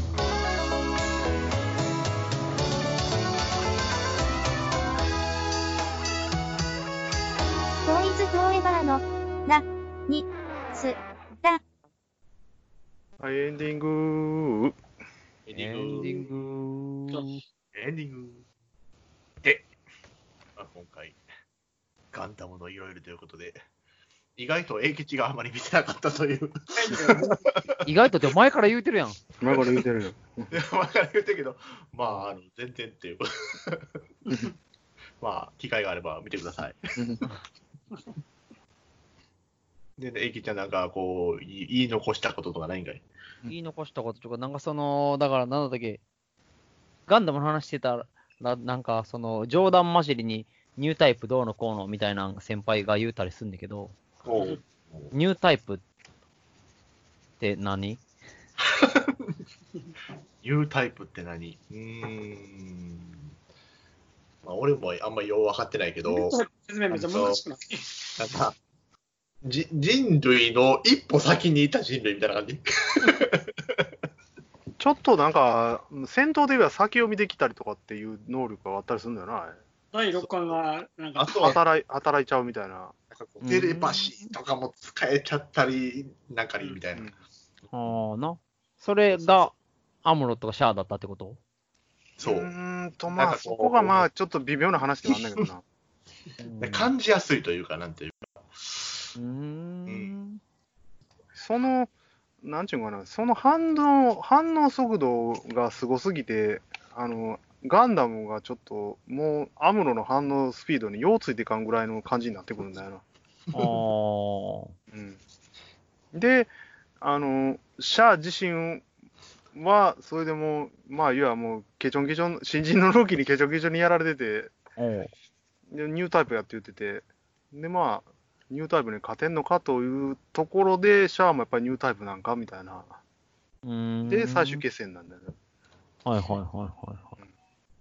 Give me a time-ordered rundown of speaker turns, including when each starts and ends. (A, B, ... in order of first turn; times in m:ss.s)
0:07.9-0:11.6 A
0:13.2-0:14.8 B
0:15.5-0:16.2 C
0:15.5-0:17.4 D
0:17.7-0:18.4 C
0:20.6-0:21.2 C
0:22.1-0:23.6 C
0:24.4-0:27.8 C
0:26.8-0:27.5 E
0:27.8-0:29.2 D
0:29.4-0:30.6 B
0:29.5-0:29.8 C
0:30.5-0:33.9 C
0:35.2-0:36.8 C
0:37.0-0:37.2 B
0:40.0-0:43.0 C
0:43.5-0:46.0 D
0:47.1-0:54.0 D
0:54.2-0:55.1 C
0:55.1-0:55.8 D
0:57.4-0:58.0 D
0:58.7-0:59.4 C
1:00.4-1:03.3 C
1:04.4-1:07.4 C
1:06.1-1:08.1 E
1:08.1-1:08.6 C
1:09.4-1:13.9 C
1:14.8-1:19.6 B
1:19.9-1:21.6 E
1:20.2-1:20.6 C
1:21.2-1:21.6 C
1:21.4-1:23.0 B
1:23.1-1:27.1 C
1:23.4-1:24.3 D
1:27.7-1:29.5 D
1:29.1-1:29.5 C
1:30.0-1:31.4 D
1:32.2-1:32.5 C
1:32.2-1:35.6 B
1:33.1-1:34.1 C
1:36.4-1:36.9 D
1:36.6-1:39.1 C
1:39.2-1:40.4 D
1:39.9-1:40.1 C
1:41.4-1:41.9 B
1:42.4-1:53.0 B
1:53.5-1:54.7 D
1:54.9-1:55.2 B
1:56.1-1:58.9 B
1:59.5-2:04.6 B
2:04.8-2:05.1 D
2:05.7-2:13.0 B
2:13.6-2:14.6 D
2:14.1-2:15.3 B
2:16.0-2:17.2 D